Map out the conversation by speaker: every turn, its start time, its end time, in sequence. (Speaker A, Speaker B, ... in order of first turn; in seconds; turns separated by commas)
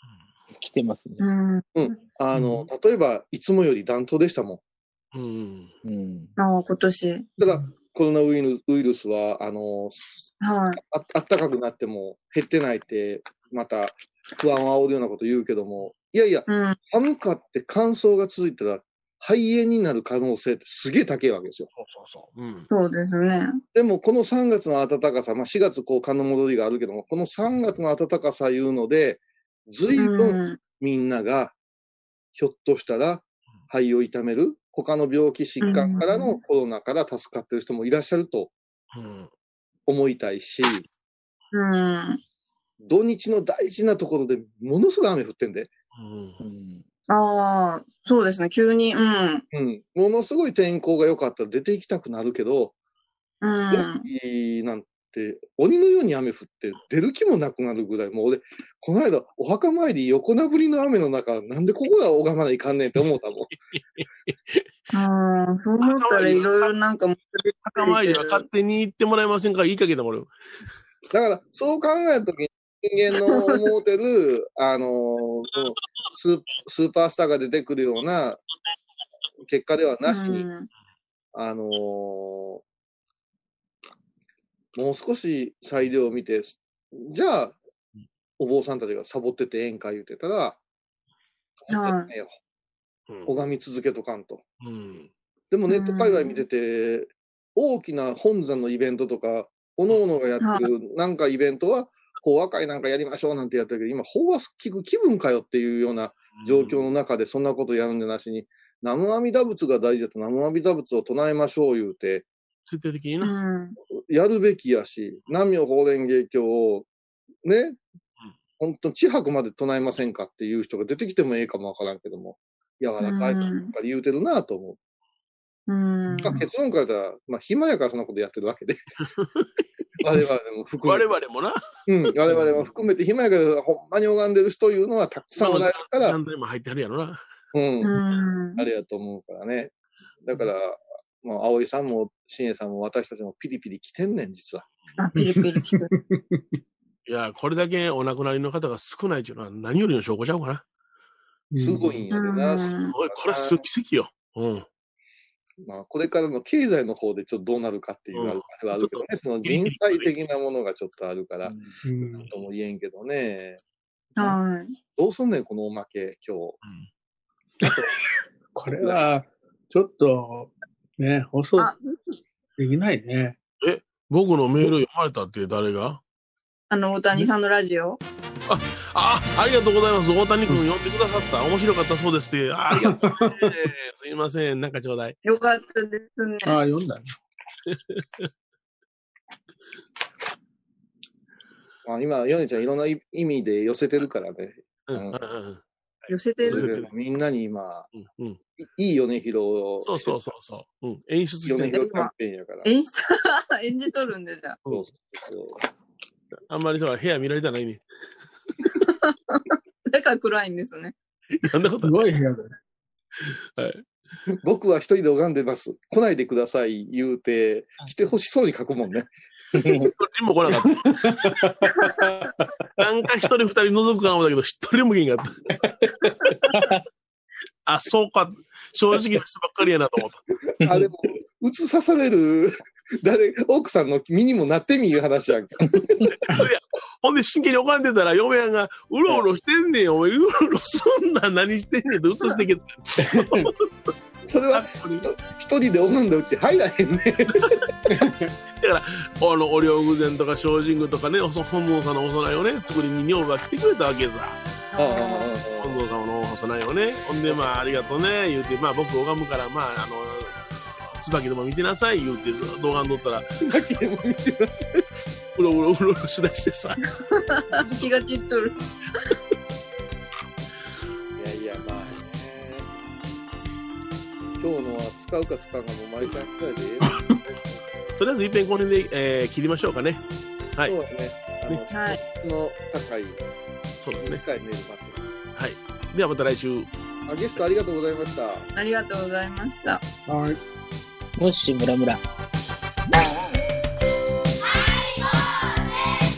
Speaker A: 0.6-1.2, Speaker B: 1.2-1.8, Speaker C: 1.8-4.6, Speaker D: 2.3-2.6, Speaker E: 5.1-5.7, Speaker A: 5.8-6.3, Speaker B: 6.4-7.3, Speaker C: 7.4-21.7, Speaker B: 10.4-10.8, Speaker B: 16.5-16.8, Speaker E: 21.8-22.7, Speaker B: 22.7-23.6, Speaker C: 23.7-31.6, Speaker B: 29.9-30.6, Speaker C: 32.4-38.5, Speaker B: 35.6-36.4, Speaker E: 38.9-39.3, Speaker C: 39.9-40.9, Speaker B: 41.5-42.2, Speaker C: 42.8-45.7, Speaker E: 46.0-46.4, Speaker A: 46.4-46.8, Speaker B: 47.1-49.5, Speaker C: 49.5-52.7, Speaker B: 53.4-54.1, Speaker C: 53.7-63.5, Speaker E: 64.0-64.7, Speaker B: 64.9-68.5, Speaker E: 65.8-66.7, Speaker E: 67.7-70.3, Speaker C: 71.1-78.4, Speaker B: 73.3-73.5, Speaker C: 79.5-80.5, Speaker B: 80.1-80.7, Speaker C: 81.3-82.6, Speaker C: 84.8-87.6, Speaker C: 88.4-90.6, Speaker C: 91.6-92.3, Speaker B: 91.7-92.1, Speaker C: 93.3-94.4, Speaker E: 94.6-95.1, Speaker C: 95.5-112.3, Speaker B: 95.7-96.4, Speaker E: 106.4-106.8, Speaker E: 112.7-113.3, Speaker B: 113.2-113.8, Speaker C: 114.1-116.9, Speaker C: 117.4-117.8, Speaker C: 118.6-124.8, Speaker B: 123.0-123.7, Speaker B: 125.7-126.4, Speaker C: 126.2-128.8, Speaker E: 129.1-129.5, Speaker C: 130.0-131.1, Speaker E: 130.8-131.6, Speaker C: 131.9-136.2, Speaker E: 132.2-132.7, Speaker E: 135.4-137.2, Speaker C: 137.5-137.9, Speaker B: 137.8-138.7, Speaker C: 138.6-139.7, Speaker C: 140.2-144.7, Speaker B: 145.0-145.9, Speaker D: 145.2-146.6, Speaker E: 147.1-150.6, Speaker D: 151.5-151.9, Speaker C: 151.6-153.6, Speaker B: 152.1-152.9, Speaker E: 152.9-154.7, Speaker C: 155.6-161.6, Speaker E: 158.1-160.1, Speaker A: 161.4-161.8, Speaker D: 161.8-162.3, Speaker C: 162.3-163.6, Speaker B: 164.2-164.8, Speaker C: 165.0-166.6, Speaker D: 168.6-171.7, Speaker C: 168.7-169.0, Speaker B: 171.6-172.0, Speaker D: 172.6-173.4, Speaker E: 173.6-176.0, Speaker B: 176.7-178.0, Speaker E: 178.5-185.2, Speaker D: 182.8-183.5, Speaker B: 185.2-186.5, Speaker D: 186.4-187.1, Speaker E: 187.7-188.3, Speaker C: 191.8-195.2, Speaker E: 194.9-195.6, Speaker B: 196.1-196.7, Speaker C: 196.4-197.9, Speaker E: 196.4-196.9, Speaker E: 197.9-198.4, Speaker C: 198.6-200.2, Speaker E: 199.8-201.8, Speaker C: 201.4-202.7, Speaker B: 201.7-202.1, Speaker B: 202.7-204.6, Speaker C: 204.7-205.6, Speaker E: 206.5-207.8, Speaker B: 208.8-210.9, Speaker E: 211.4-212.1, Speaker D: 211.8-212.5, Speaker E: 213.6-213.8, Speaker C: 214.3-219.1, Speaker A: 219.6-219.9, Speaker E: 219.6-221.4, Speaker D: 221.1-222.5, Speaker E: 222.8-225.7, Speaker A: 226.5-226.8, Speaker E: 227.7-230.2, Speaker A: 230.6-230.9, Speaker C: 230.6-236.2, Speaker E: 236.2-243.7, Speaker C: 244.3-247.6, Speaker E: 244.5-245.1, Speaker D: 247.9-248.3, Speaker E: 248.6-254.4, Speaker B: 254.7-255.3, Speaker C: 254.8-255.8, Speaker E: 255.6-263.3, Speaker C: 263.4-264.8, Speaker E: 265.4-266.9, Speaker B: 267.3-268.6, Speaker C: 271.2-272.7, Speaker C: 274.4-277.0, Speaker D: 276.9-277.2, Speaker E: 278.0-280.0, Speaker C: 280.6-283.2, Speaker B: 281.7-282.0, Speaker E: 283.8-284.2, Speaker C: 284.0-285.2, Speaker E: 285.4-286.7, Speaker C: 287.1-288.5, Speaker B: 288.6-289.8, Speaker D: 290.1-290.4, Speaker A: 291.2-292.0